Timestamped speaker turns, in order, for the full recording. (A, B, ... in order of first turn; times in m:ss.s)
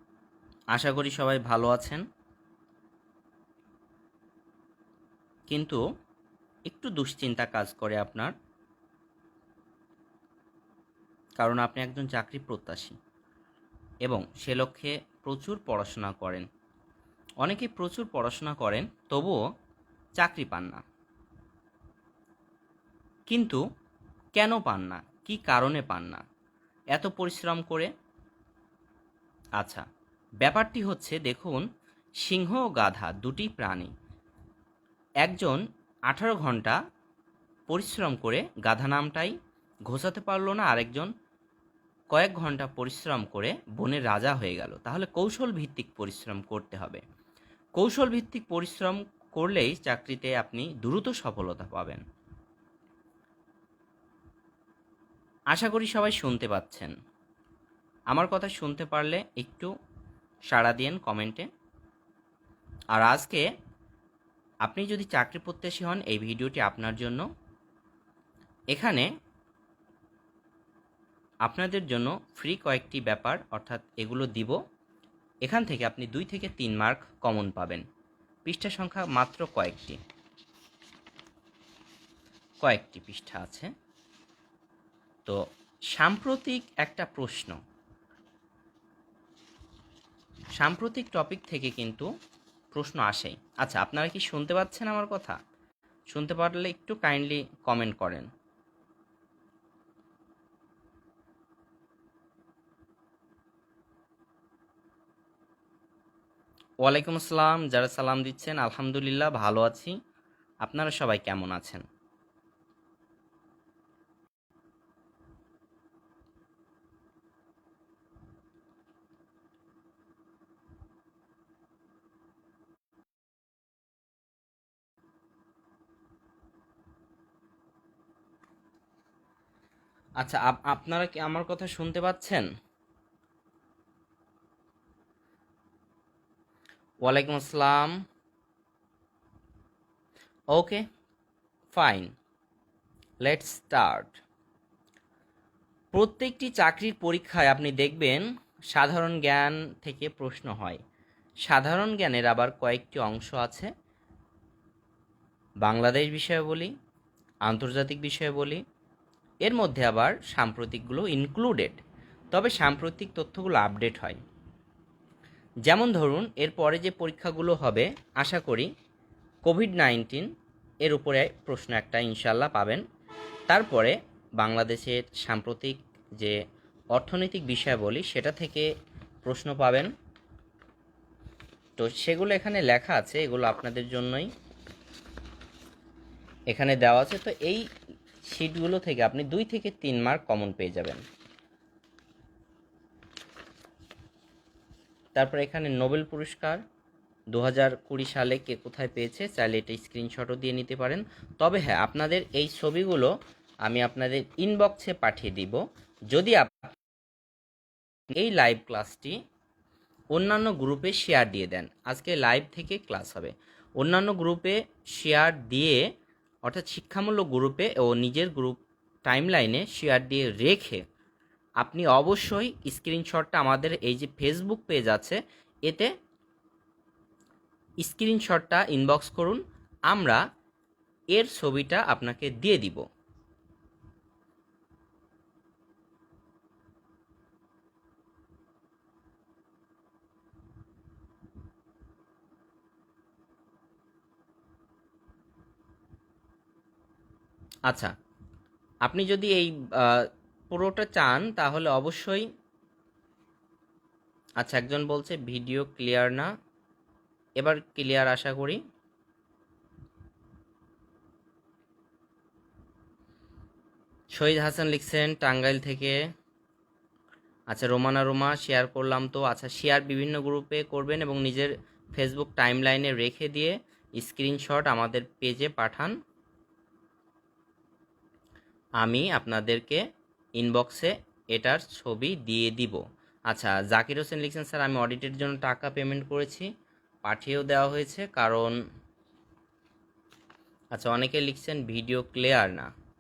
0:00.7-0:02.0 A
0:05.5-0:05.8 A
0:06.7-0:08.3 A
0:11.4-0:13.0 A
0:14.0-0:16.5 A
0:17.4-0:19.4 A
0:20.2-0:20.8 A
0:23.3-0:23.6 A
0:24.4-0:26.2 A
0:26.9-0:27.9 A
0:29.6-0:29.8 A
0:30.4-0:31.7 A
0:32.2-0:33.9 A
0:35.2-0:36.8 A
0:37.7-0:39.4 A
0:39.9-0:41.1 A
0:42.1-0:47.0 A
0:47.8-0:52.0 A
0:55.5-0:56.9 A
0:58.1-0:59.7 A
1:00.5-1:01.5 A
1:02.9-1:03.4 A
1:04.6-1:07.3 A
1:08.7-1:09.1 A
1:11.4-1:14.6 A
1:15.4-1:17.8 A
1:18.4-1:20.0 A
1:22.6-1:23.7 A
1:25.9-1:27.6 A
1:30.6-1:32.1 A
1:32.7-1:35.4 A
1:36.1-1:38.3 A
1:46.8-1:50.0 A
1:50.6-1:51.8 A
2:10.2-2:12.5 A
2:17.0-2:17.9 A
2:20.5-2:20.8 A
2:21.7-2:22.1 A
2:23.2-2:24.2 A
2:25.9-2:30.8 A
2:31.5-2:33.7 A
2:35.6-2:36.7 A
2:37.5-2:38.6 A
2:39.4-2:41.8 A
2:42.3-2:44.2 A
2:45.7-2:48.7 A
2:49.4-2:50.3 A
2:50.8-2:52.8 A
2:53.5-2:56.4 A
2:56.9-2:58.7 A
2:59.2-2:59.9 A
3:01.8-3:04.3 A
3:06.5-3:07.7 A
3:08.3-3:11.0 A
3:15.2-3:16.6 A
3:17.3-3:23.1 A
3:23.6-3:25.6 A
3:26.1-3:26.8 A
3:28.1-3:29.2 A
3:30.1-3:35.9 A
3:36.4-3:40.8 A
3:41.6-3:45.9 A
3:47.8-3:50.2 A
3:51.1-3:52.8 A
4:08.8-4:12.3 A
4:14.4-4:16.3 A
4:17.4-4:18.6 A
4:24.2-4:26.0 A
4:27.5-4:36.0 A
4:38.8-4:39.8 A
4:40.4-4:46.5 A
4:47.0-4:48.6 A
4:50.7-4:52.7 A